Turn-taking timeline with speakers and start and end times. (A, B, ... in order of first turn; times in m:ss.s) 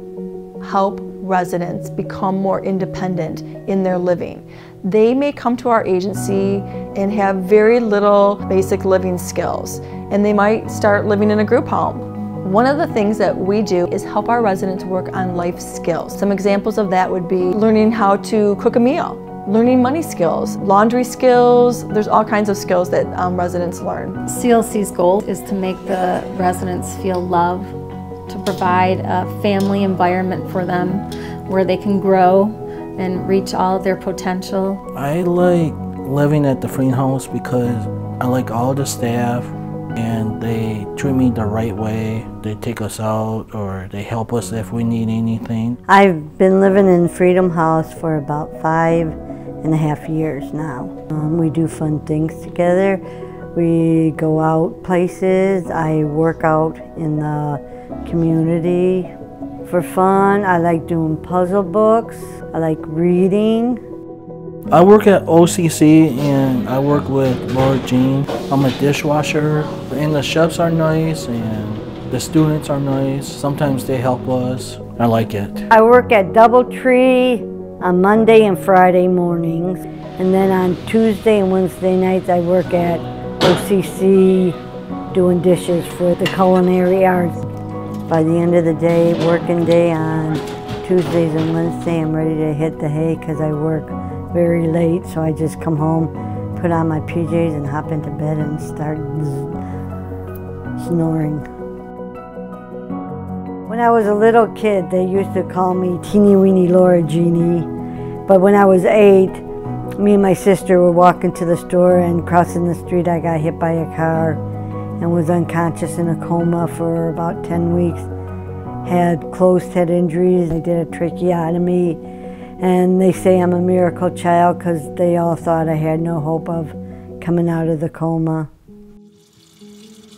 0:00.6-0:24.2 A
0:24.3-0:27.7 B
0:28.3-0:34.8 B
0:35.0-0:45.8 C
0:45.9-0:53.0 D
0:53.6-0:59.1 D
0:59.6-1:03.8 D
1:04.7-1:15.7 C
1:15.7-1:24.6 D
1:25.1-1:27.5 D
1:28.1-1:39.6 D
1:40.8-1:41.5 D
1:43.7-1:47.7 D
1:48.3-1:49.4 D
1:50.0-1:54.4 D
1:55.0-1:58.1 D
1:58.8-2:02.0 D
2:02.6-2:08.5 D